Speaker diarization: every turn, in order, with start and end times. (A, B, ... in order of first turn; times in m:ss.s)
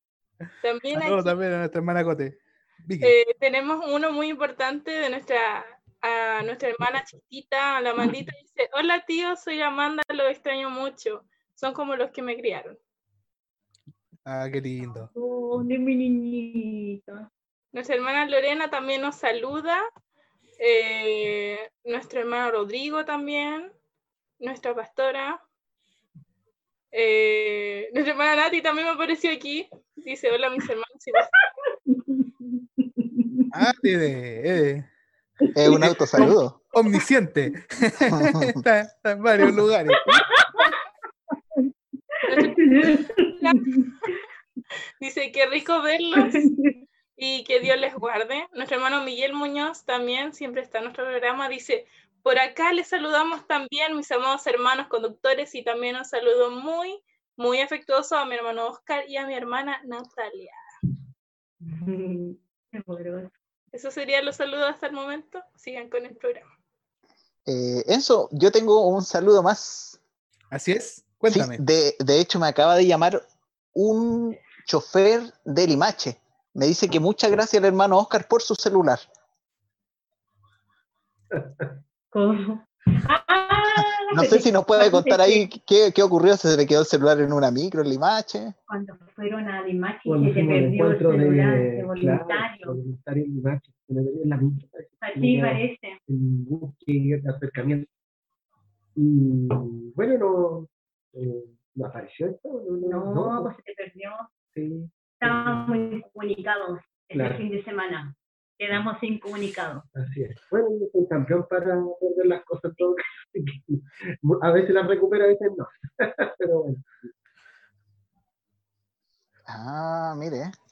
0:00.6-0:01.4 A
0:00.9-0:03.1 B
0:03.0-0:12.8 A
0:14.2-0:15.1 B
0:14.8-0:17.3 C
0:17.7-0:19.8 A
0:20.6-0:23.7 A
0:24.4-0:25.4 A
0:26.9-0:31.3 A
0:31.2-0:33.5 C
0:33.5-0:34.9 B
0:35.4-0:36.2 C
0:35.6-0:36.6 D
0:35.8-0:40.3 B
0:38.2-0:38.6 D
0:40.3-0:40.7 C
0:41.3-0:44.2 C
0:42.3-0:43.7 A
0:45.0-0:46.5 A
0:46.1-0:46.8 C
0:47.2-1:00.6 A
1:01.6-1:03.3 C
1:03.7-1:06.5 A
1:07.4-1:10.0 D
1:10.5-1:11.6 B
1:11.3-1:13.2 D
1:13.7-1:19.0 D
1:21.3-1:21.8 E
1:22.1-1:25.4 C
1:24.1-1:28.5 D
1:28.7-1:32.8 C
1:30.0-1:37.9 E
1:35.0-1:36.0 C
1:39.0-1:43.5 E
1:42.8-1:44.3 C
1:44.5-1:45.9 E
1:45.2-1:49.8 C
1:47.1-1:47.4 E
1:49.9-1:57.1 E
1:59.5-2:00.5 D